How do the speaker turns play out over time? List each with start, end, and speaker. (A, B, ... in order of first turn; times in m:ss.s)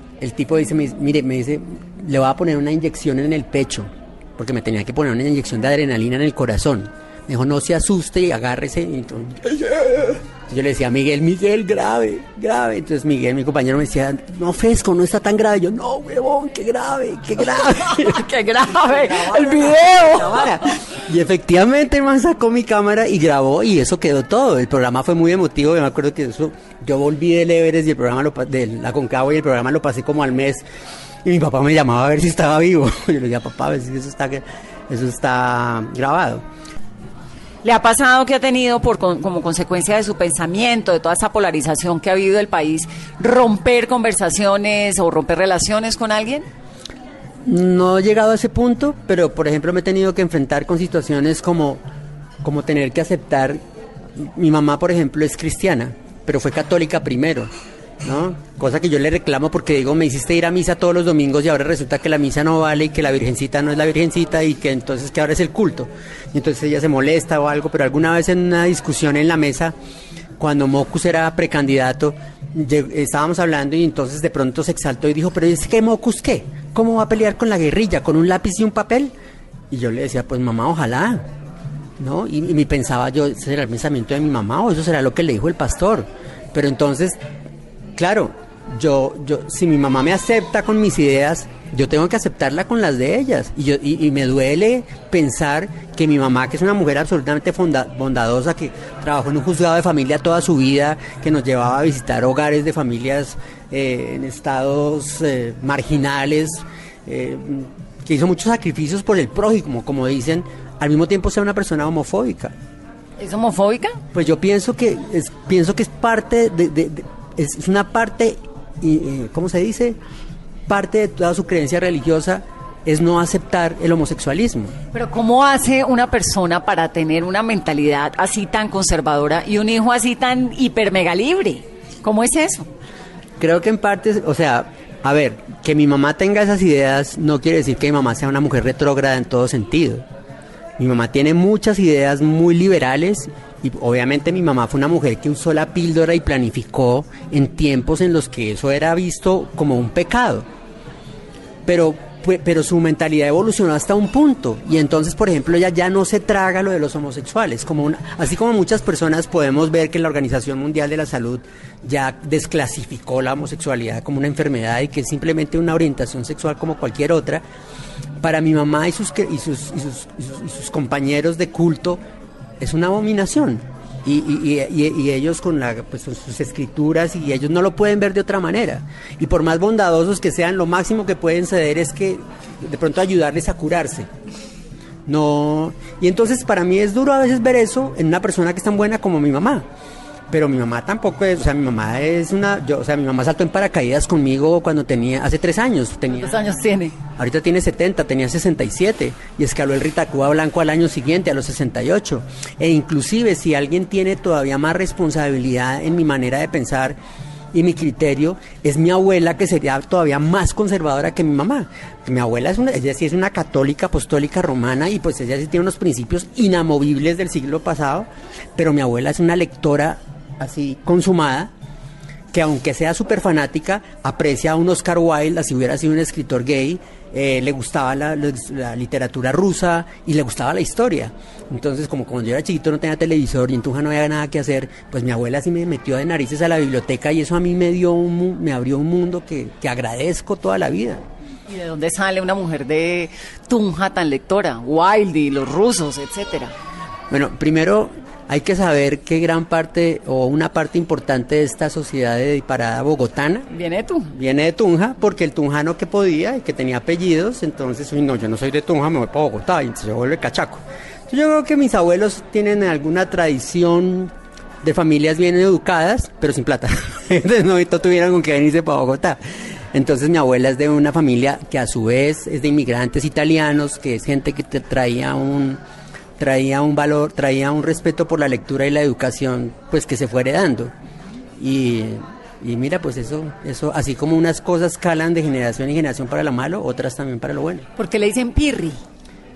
0:00.2-0:18.3 A
0:17.9-0:20.7 B
0:18.8-0:30.7 A
0:31.2-0:36.4 A
0:37.6-0:46.5 B
0:47.4-0:51.8 A
0:52.4-0:53.6 A
0:54.2-0:57.5 A
0:58.0-1:09.8 A
1:10.4-1:19.1 A
1:19.7-1:21.2 A
1:22.0-1:27.2 A
1:28.0-1:52.5 A
1:53.2-1:54.0 B
1:54.1-2:00.0 A
2:00.7-2:04.8 A
2:04.9-2:12.7 B
2:13.4-2:20.0 A
2:20.8-2:30.5 A
2:31.7-2:47.4 A
2:48.2-2:52.0 A
2:52.6-3:04.1 A
3:05.1-3:09.7 A
3:10.3-3:16.4 A
3:16.1-3:17.0 B
3:17.2-3:27.0 A
3:27.5-3:41.5 A
3:42.3-4:01.0 A
4:01.5-4:06.5 B
4:07.1-4:13.5 A
4:13.5-4:14.1 B
4:14.1-4:29.2 A
4:29.7-4:35.6 A
4:36.2-4:40.7 A
4:41.4-4:47.7 A
4:47.8-4:48.8 B